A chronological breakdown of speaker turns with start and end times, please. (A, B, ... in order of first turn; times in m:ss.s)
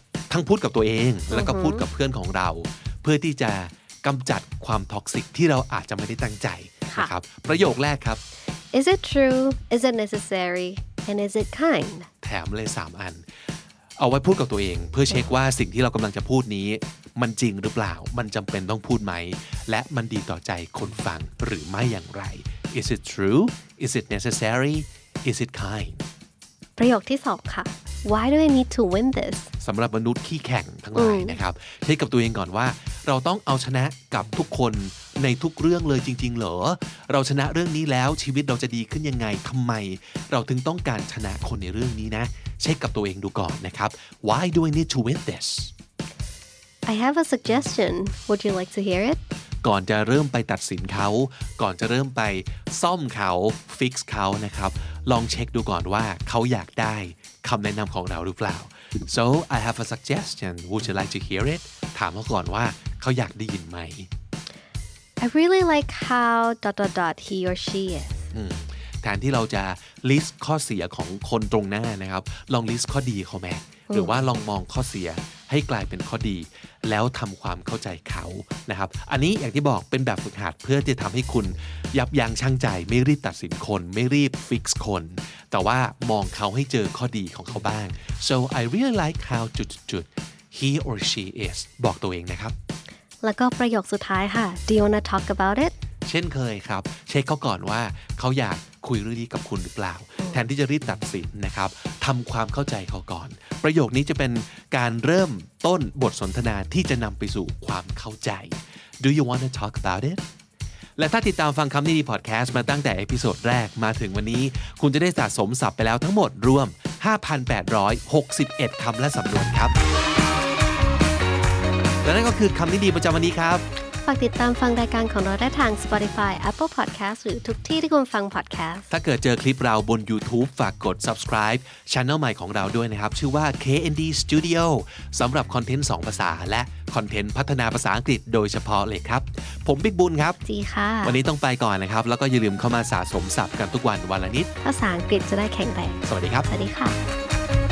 0:00.3-0:08.2 A
0:01.3-0:01.9 B
0:06.8-0:07.1 B
0:08.7-0:12.1 B
0:12.2-0:13.2 A
0:14.0-0:26.0 A
0:26.8-0:29.5 B
0:29.6-0:45.7 A
0:30.9-0:31.4 B
0:46.8-0:49.2 B
0:49.6-1:04.1 A
1:05.2-1:08.1 B
1:08.3-1:32.5 A
1:13.9-1:14.3 B
1:33.2-1:35.7 B
1:36.0-1:50.2 A
1:51.0-1:59.8 A
2:02.0-2:03.6 A
2:04.0-2:08.9 B
2:08.9-2:20.4 A
2:20.4-2:21.2 B
2:21.0-2:24.5 A
2:24.6-2:27.0 B
2:26.0-2:26.5 A